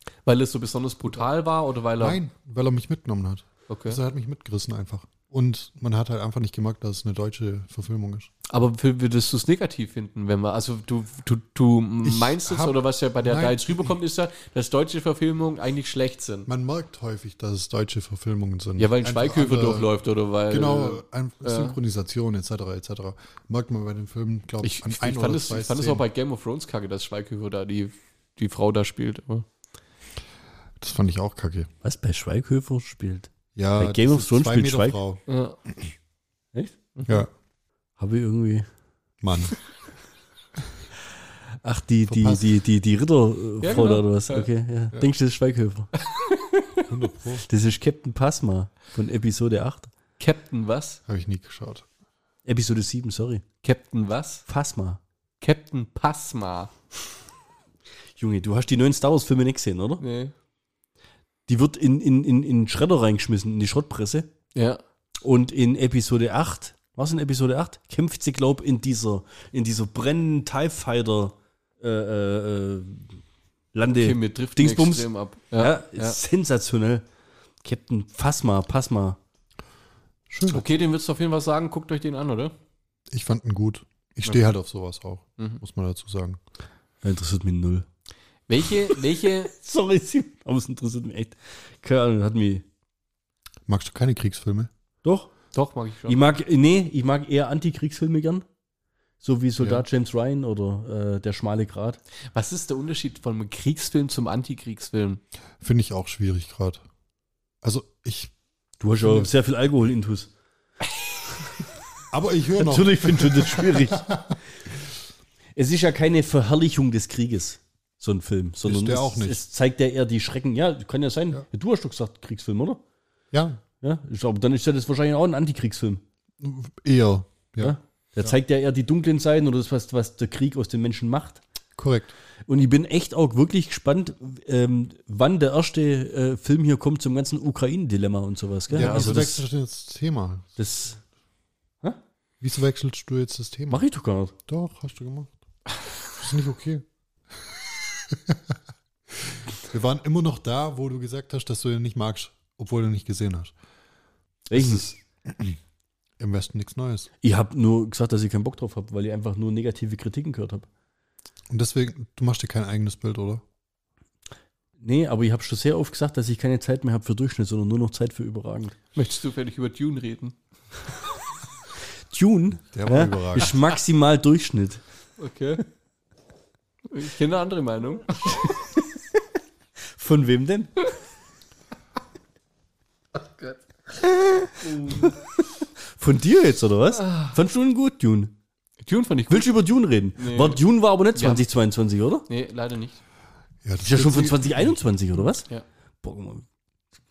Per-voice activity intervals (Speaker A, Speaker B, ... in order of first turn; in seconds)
Speaker A: 0.3-2.2, 3.7-4.0, 8.5-16.5, 18.8-21.8, 24.6-29.5, 35.3-35.6, 37.0-37.3, 43.6-44.5, 46.1-46.6, 50.2-51.0, 53.6-54.4, 55.4-56.7, 60.0-60.3, 64.5-64.8, 74.0-76.2, 80.5-82.5, 88.5-89.5, 95.5-96.2, 102.3-105.2, 138.7-139.3, 169.0-170.4, 175.2-175.6, 176.9-178.2, 184.6-185.2, 187.0-187.3, 188.8-189.5, 190.2-190.6, 191.2-191.4, 192.3-193.0
Speaker B: 2.0-8.3, 12.0-13.9, 16.5-19.9, 20.5-26.1, 30.8-31.7, 33.5-35.2, 39.2-39.5, 42.1-42.5, 46.9-47.5, 51.1-51.9, 80.3-80.6, 83.1-86.4, 93.7-94.7, 99.6-99.8, 105.6-106.8, 107.6-108.3, 109.0-109.3, 112.1-114.3, 118.7-119.4, 123.3-123.6, 126.4-128.4, 131.8-132.2, 138.7-140.6, 142.4-143.8, 144.5-145.4, 146.2-146.9, 147.5-148.4, 149.3-153.5, 154.5-155.6, 156.2-157.1, 161.5-163.4, 172.7-173.6, 193.6-194.8
Speaker C: 31.8-35.0, 38.0-38.7, 41.6-45.9, 47.5-49.9, 52.5-53.4, 54.5-55.0, 58.2-60.0, 61.5-64.3, 65.2-73.1, 73.7-77.0, 77.6-79.2, 87.0-87.9, 89.5-92.6, 95.0-95.3, 96.1-98.5, 99.2-102.0, 108.8-110.3, 112.6-114.1, 115.6-122.8, 123.8-126.0, 127.6-131.4, 132.5-139.4, 140.6-141.0, 143.7-144.3, 154.5-154.9, 157.2-160.7, 164.8-168.8, 172.1-174.8, 180.0-180.9, 186.0-188.3, 189.3-192.3, 193.8-195.5, 196.0-196.4